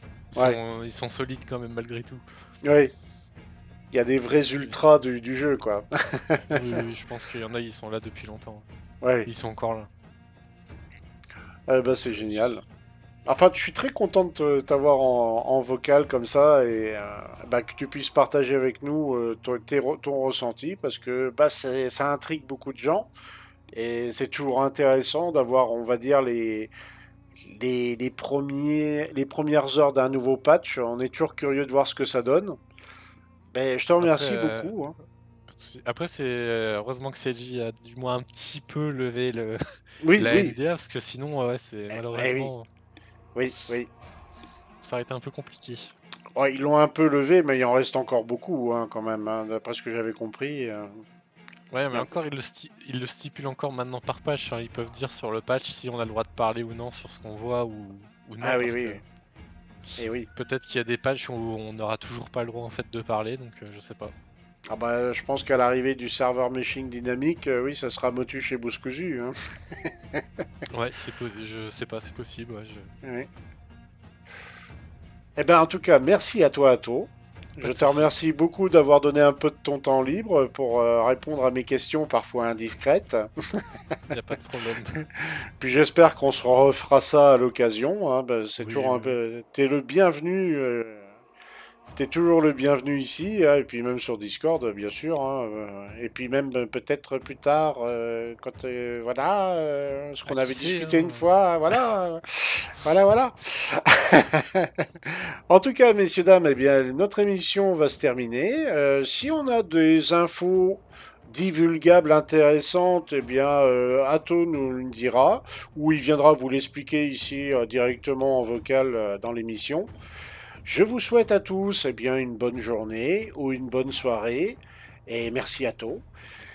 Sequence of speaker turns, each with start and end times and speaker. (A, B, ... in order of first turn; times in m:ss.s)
0:00.3-0:02.2 A
0:02.6-0:02.9 B
0:03.9-0:06.6 B
0:06.5-0:08.7 A
0:09.0-0:09.3 B
0:09.2-0:09.9 A
0:11.7-0:12.6 B
0:12.0-0:12.6 A
0:13.2-0:23.1 B
0:23.7-0:26.7 B
0:27.4-0:32.6 B
0:33.5-0:35.0 B
0:34.0-0:34.8 A
0:35.5-0:42.7 A
0:40.0-0:40.5 B
0:41.9-0:42.5 B
0:43.3-0:43.9 B
0:44.8-0:45.9 A
0:46.4-0:51.0 B
0:51.7-0:59.0 A
0:58.4-0:59.0 B
1:00.0-1:00.3 B
1:00.3-1:04.1 A
1:04.7-1:09.3 B
1:09.8-1:10.2 B
1:10.7-1:12.9 A
1:13.0-1:13.3 B
1:15.4-1:23.6 B
1:17.6-1:18.1 A
1:24.1-1:25.0 A
1:25.2-1:31.1 B
1:28.6-1:29.2 A
1:32.0-1:59.9 B
1:40.2-1:41.3 A
2:00.6-2:06.0 B